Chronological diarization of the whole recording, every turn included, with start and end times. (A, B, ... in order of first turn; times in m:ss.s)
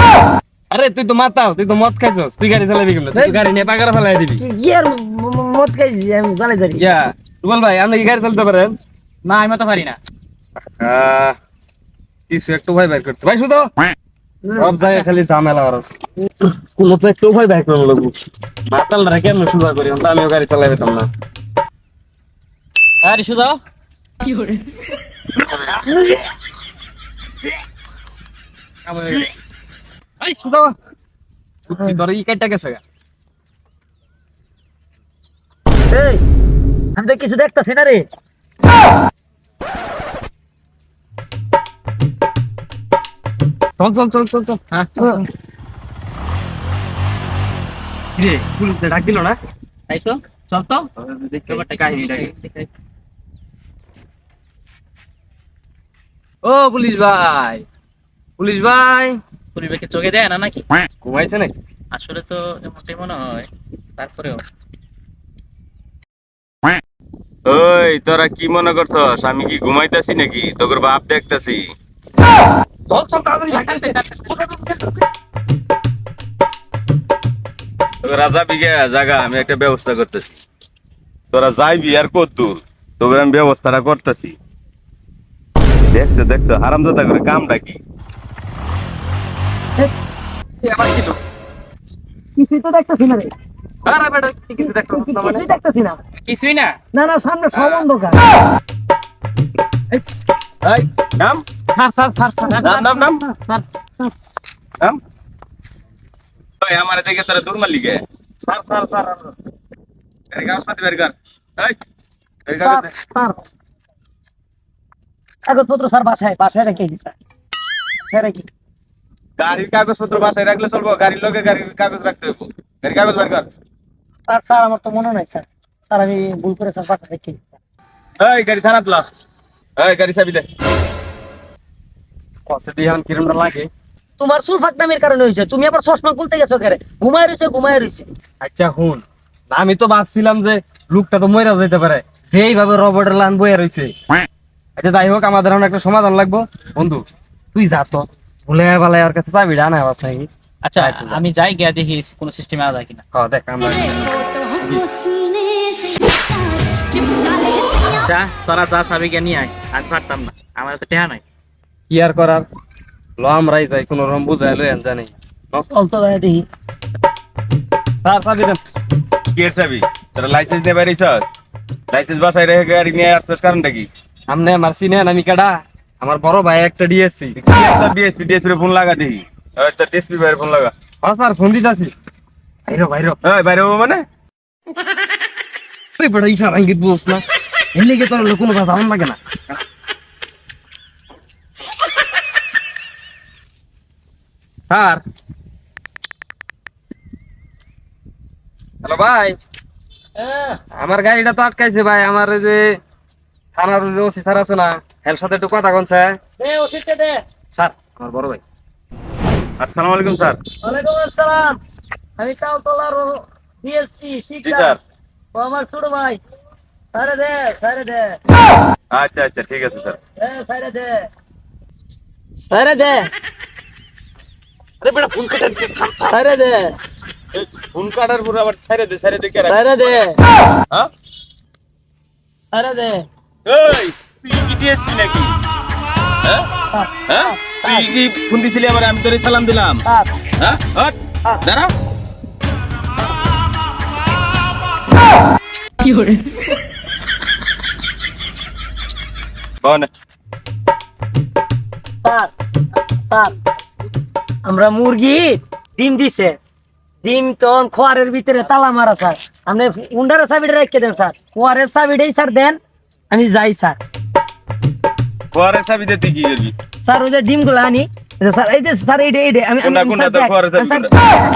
0:00.7-0:04.4 A
0:03.1-0:03.4 B
0:04.4-0:06.9 B
0:06.8-0:08.8 A
0:09.2-0:10.0 C
0:10.8-0:11.4 A
0:12.3-0:13.7 A
0:14.5-0:16.0 A
0:16.5-0:18.1 A
0:18.7-0:21.1 A
0:23.0-0:23.6 C
0:24.2-0:24.6 C
0:28.9-0:29.3 A
0:30.2-0:30.8 A
0:31.7-0:32.8 A
0:35.9-0:36.2 B
0:37.0-0:38.1 B
0:43.8-0:44.6 A
0:44.7-0:45.2 C
0:48.2-0:49.4 A
0:49.9-0:50.9 C
0:51.0-0:52.3 A
0:51.5-0:52.7 C
0:56.4-0:57.6 A
0:58.4-0:59.2 A
0:59.6-1:00.7 C
1:01.0-1:01.5 A
1:01.9-1:04.4 C
1:07.5-1:11.7 D
1:12.9-1:14.8 A
1:13.5-1:14.3 C
1:18.0-1:20.3 D
1:21.3-1:24.4 D
1:25.9-1:27.8 D
1:30.6-1:31.2 A
1:32.4-1:33.3 B
1:33.8-1:35.5 A
1:34.6-1:36.0 B
1:36.3-1:36.8 C
1:36.9-1:38.2 B
1:37.5-1:37.9 A
1:40.6-1:41.4 D
1:41.8-1:43.6 C
1:42.6-1:43.2 D
1:46.6-1:48.0 D
1:48.4-1:49.4 A
1:50.3-1:51.8 D
1:52.5-1:52.9 D
1:52.6-1:53.4 B
1:55.5-1:57.2 B
1:58.0-1:58.5 B
1:59.4-2:03.5 D
2:04.3-2:07.5 B
2:08.2-2:09.1 D
2:09.8-2:10.5 D
2:12.5-2:13.7 A
2:14.2-2:18.1 B
2:18.4-2:24.0 A
2:24.8-2:31.2 A
2:30.6-2:33.0 C
2:33.1-2:35.1 A
2:38.0-2:41.2 C
2:41.9-2:42.5 A
2:43.2-2:45.7 A
2:45.7-2:46.4 B
2:48.0-2:48.6 A
2:49.3-2:51.2 D
2:51.9-2:53.9 D
2:54.3-2:57.4 A
2:57.4-3:00.7 D
3:01.0-3:01.9 A
3:02.7-3:03.2 A
3:03.2-3:04.0 D
3:06.0-3:09.2 A
3:14.7-3:15.0 A
3:18.8-3:19.4 A
3:20.2-3:20.6 B
3:20.8-3:22.8 A
3:23.6-3:26.2 A
3:26.4-3:27.2 B
3:27.5-3:28.4 A
3:29.6-3:30.4 D
3:30.6-3:31.6 B
3:32.2-3:34.8 B
3:34.4-3:34.8 D
3:35.3-3:36.2 B
3:36.9-3:38.2 B
3:38.9-3:40.0 D
3:40.2-3:41.1 B
3:42.4-3:43.1 B
3:44.8-3:46.1 A
3:46.0-3:46.6 B
3:47.3-3:50.0 D
3:49.5-3:50.2 B
3:52.5-3:53.0 B
3:53.5-3:55.4 D
3:56.7-3:57.9 B
3:57.1-3:59.8 D
3:59.8-4:00.1 B
4:00.4-4:01.7 D
4:05.8-4:06.1 C
4:09.6-4:09.9 D
4:12.0-4:12.3 B
4:13.1-4:13.3 B
4:14.4-4:16.4 B
4:17.0-4:23.8 B
4:25.3-4:26.5 D
4:26.8-4:31.1 B
4:29.6-4:30.9 D